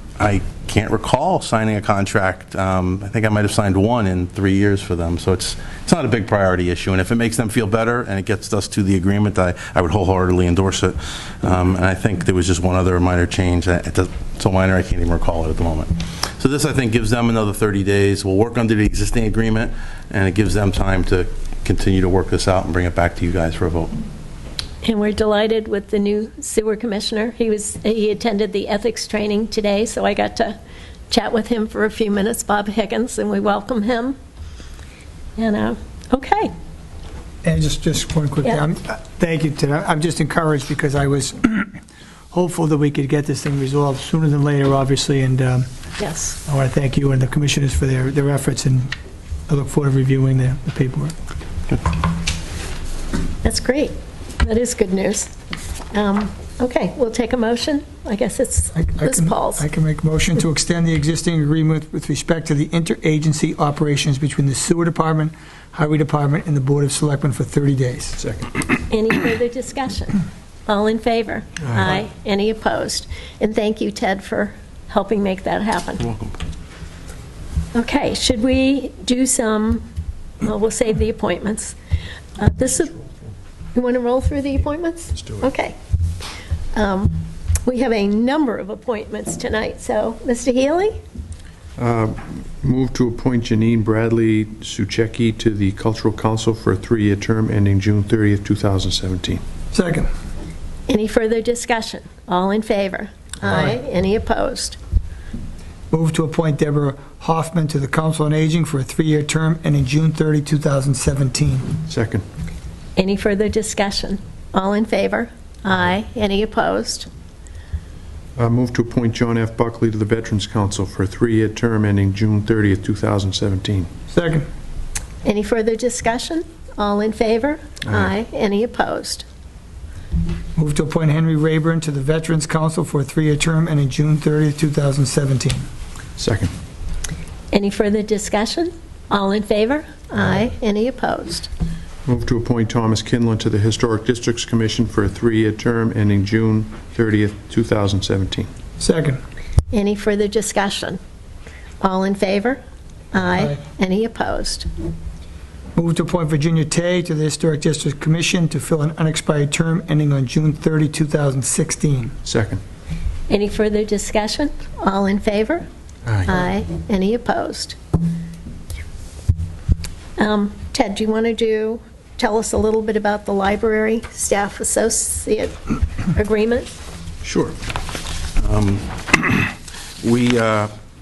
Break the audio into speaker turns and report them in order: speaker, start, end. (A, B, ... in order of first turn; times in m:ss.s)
0:00.2-0:23.9 A
0:24.8-0:30.6 B
0:31.1-0:34.2 B
0:35.4-0:36.5 B
0:37.4-0:41.8 C
0:42.3-0:45.7 C
0:46.0-0:46.4 B
0:46.5-0:48.9 C
0:49.5-0:51.2 C
0:53.4-0:55.3 B
0:55.9-0:59.6 B
0:58.8-1:08.2 C
1:08.2-1:08.5 D
1:08.9-1:16.1 B
1:16.1-1:16.3 A
1:17.7-1:19.9 B
1:20.4-1:21.8 B
1:22.4-1:23.0 B
1:23.8-1:25.8 B
1:26.8-1:31.0 B
1:31.8-1:39.4 D
1:39.7-1:40.1 C
1:40.9-1:44.8 B
1:45.9-1:51.7 C
1:51.9-1:52.2 D
1:53.0-1:57.1 B
1:58.4-2:03.9 D
2:04.1-2:04.5 C
2:05.2-2:09.2 B
2:10.6-2:15.7 C
2:16.2-2:16.5 D
2:17.5-2:21.5 B
2:22.0-2:28.5 D
2:28.8-2:29.2 C
2:29.7-2:31.0 B
2:31.8-2:32.6 B
2:33.1-2:34.7 B
2:35.8-2:42.2 C
2:42.2-2:42.6 D
2:43.3-2:45.7 B
2:46.2-2:47.8 B
2:50.2-2:56.8 B
2:57.2-2:57.6 A
2:58.3-3:00.7 A